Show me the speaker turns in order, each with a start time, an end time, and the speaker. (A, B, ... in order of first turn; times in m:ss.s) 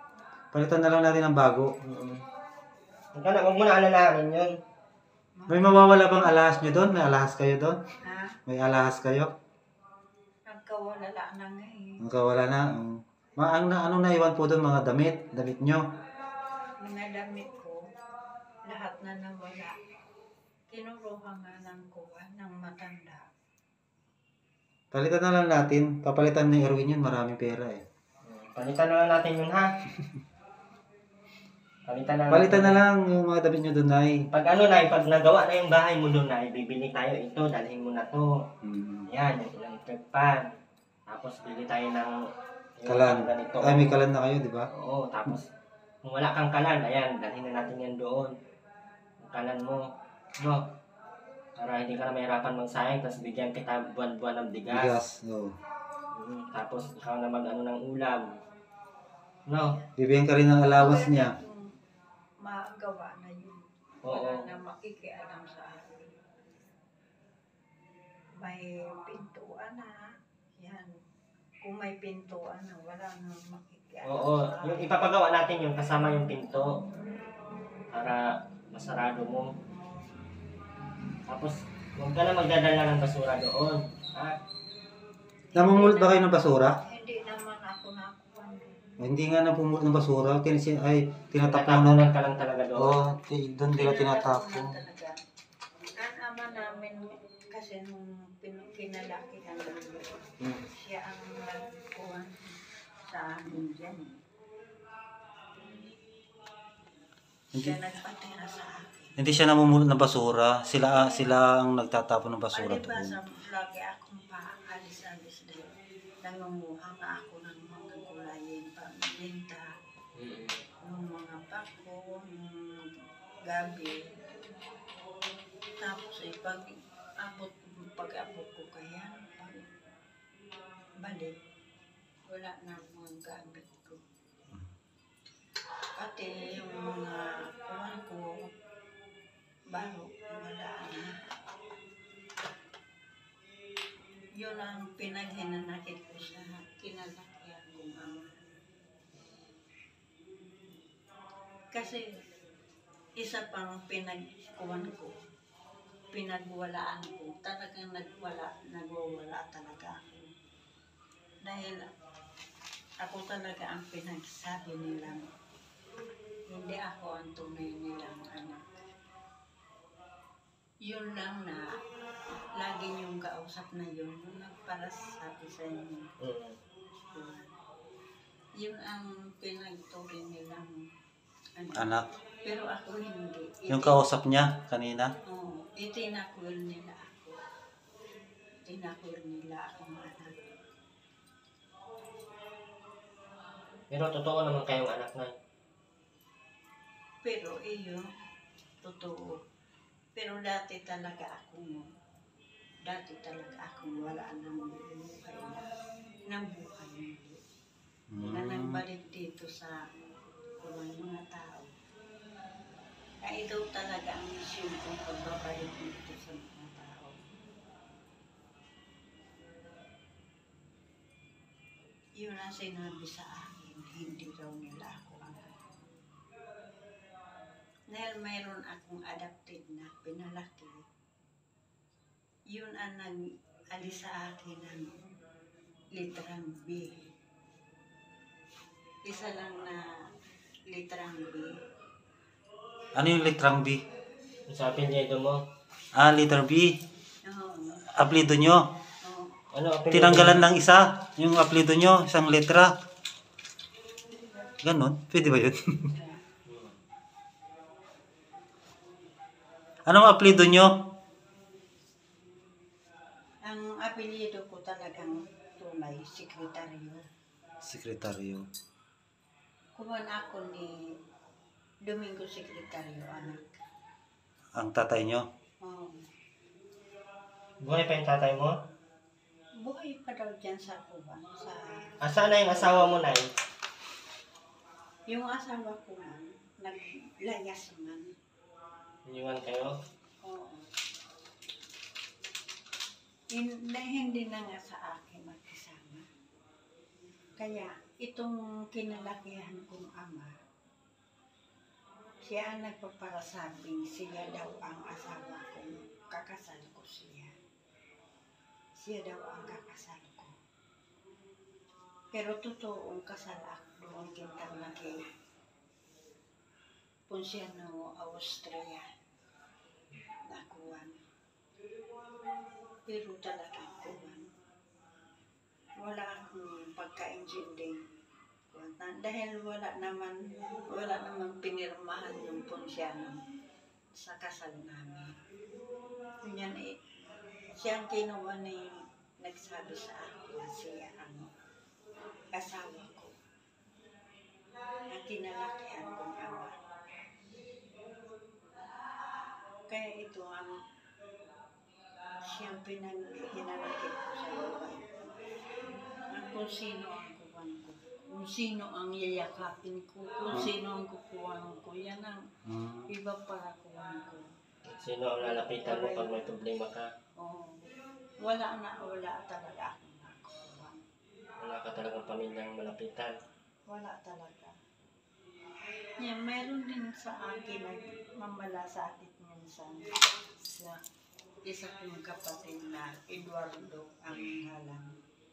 0:00.5-0:01.7 A
0:01.8-0:02.2 B
0:03.1-0:04.6 B
0:05.4-0:05.8 C
0:05.5-0:07.8 A
0:08.0-0:08.4 C
0:08.5-0:09.3 A
0:10.4-0:12.0 C
0:12.0-0:15.9 A
0:16.8-0:17.9 C
0:18.6-0:19.8 C
0:20.7-0:23.3 C
0:24.9-0:27.8 A
0:28.2-0:29.7 B
0:31.9-0:32.8 B
0:32.3-0:34.3 A
0:34.3-0:38.4 B
0:38.6-0:39.1 A
0:39.1-0:40.5 B
0:41.1-0:42.2 B
0:42.8-0:44.0 B
0:42.8-0:44.7 A
0:44.7-0:45.5 B
0:46.0-0:48.3 B
0:49.2-0:49.8 B
0:50.4-0:50.6 B
0:51.6-0:55.0 B
0:54.7-0:55.6 A
0:56.1-0:58.4 B
0:59.5-0:59.8 B
1:00.0-1:01.3 A
1:00.8-1:01.7 C
1:02.4-1:06.1 C
1:04.0-1:04.4 B
1:08.4-1:11.0 C
1:11.6-1:14.9 C
1:14.0-1:16.8 B
1:17.9-1:19.5 B
1:21.3-1:24.4 B
1:25.5-1:26.2 C
1:25.6-1:26.8 A
1:26.8-1:28.8 C
1:29.0-1:32.1 A
1:31.4-1:33.0 B
1:32.8-1:34.7 A
1:33.7-1:35.2 C
1:36.0-1:44.2 C
1:47.5-1:47.8 A
1:47.5-1:49.2 C
1:49.2-1:53.2 A
1:51.0-1:51.3 C
1:52.5-1:59.7 C
2:00.2-2:00.6 B
2:00.8-2:04.4 C
2:05.8-2:09.7 C
2:11.0-2:11.3 C
2:12.3-2:14.0 C
2:15.9-2:18.5 C
2:19.7-2:21.1 C
2:24.4-2:28.4 C
2:31.7-2:32.1 C
2:33.2-2:35.2 C
2:36.1-2:40.3 C
2:41.4-2:41.9 C
2:43.0-2:45.3 C
2:46.5-2:48.7 C
2:50.8-2:51.8 C
2:52.5-2:56.1 C
2:56.2-2:56.6 B
2:57.1-2:57.5 C
2:58.6-3:00.8 C
3:01.6-3:01.9 C
3:01.7-3:02.1 A
3:02.4-3:04.0 C
3:03.7-3:05.1 A
3:05.2-3:07.4 C
3:08.6-3:10.4 C
3:13.9-3:15.3 B
3:17.2-3:18.0 C
3:18.8-3:19.4 C
3:20.1-3:21.9 C
3:22.8-3:25.7 C
3:26.2-3:27.4 C
3:28.1-3:28.8 A
3:28.2-3:29.8 C
3:30.6-3:31.7 C
3:33.2-3:37.2 C
3:42.2-3:45.6 C
3:47.9-3:50.8 C
3:52.5-3:55.0 C
3:55.9-3:57.1 C
3:59.0-4:00.1 C
4:00.7-4:01.6 C
4:02.9-4:03.8 A
4:04.5-4:05.4 B
4:05.9-4:06.8 A
4:07.2-4:07.9 C
4:07.9-4:08.7 A
4:09.0-4:09.4 C
4:09.5-4:10.4 B
4:09.9-4:12.8 A
4:14.2-4:14.5 C
4:14.6-4:15.9 A
4:15.9-4:16.2 C
4:16.4-4:16.7 B
4:19.9-4:20.7 A
4:23.4-4:27.0 C
4:27.6-4:28.4 A
4:29.8-4:30.8 C
4:31.8-4:33.5 C
4:34.6-4:35.2 A
4:35.6-4:36.1 C
4:37.6-4:38.6 B
4:39.6-4:42.9 C
4:42.0-4:43.3 B
4:45.1-4:48.1 C
4:49.0-4:49.8 B
4:50.2-4:50.7 C
4:53.3-4:56.0 C
4:57.4-5:00.3 C
5:02.2-5:07.3 C
5:08.8-5:10.3 C
5:12.1-5:15.0 C
5:17.1-5:18.9 C
5:20.3-5:21.0 C
5:22.8-5:24.3 C
5:25.8-5:27.8 C
5:28.5-5:33.2 C
5:33.9-5:35.2 C
5:36.2-5:36.8 C
5:37.5-5:41.3 C
5:42.3-5:43.1 C
5:44.9-5:46.6 C
5:49.7-5:50.6 C
5:52.2-5:55.0 C
5:56.1-6:02.2 C
6:02.4-6:02.9 A
6:02.9-6:04.3 C
6:04.6-6:06.9 B
6:05.2-6:06.3 C
6:07.2-6:07.7 C
6:08.2-6:10.8 C
6:11.4-6:13.1 B
6:13.7-6:14.6 C
6:16.0-6:20.8 C
6:21.4-6:25.0 C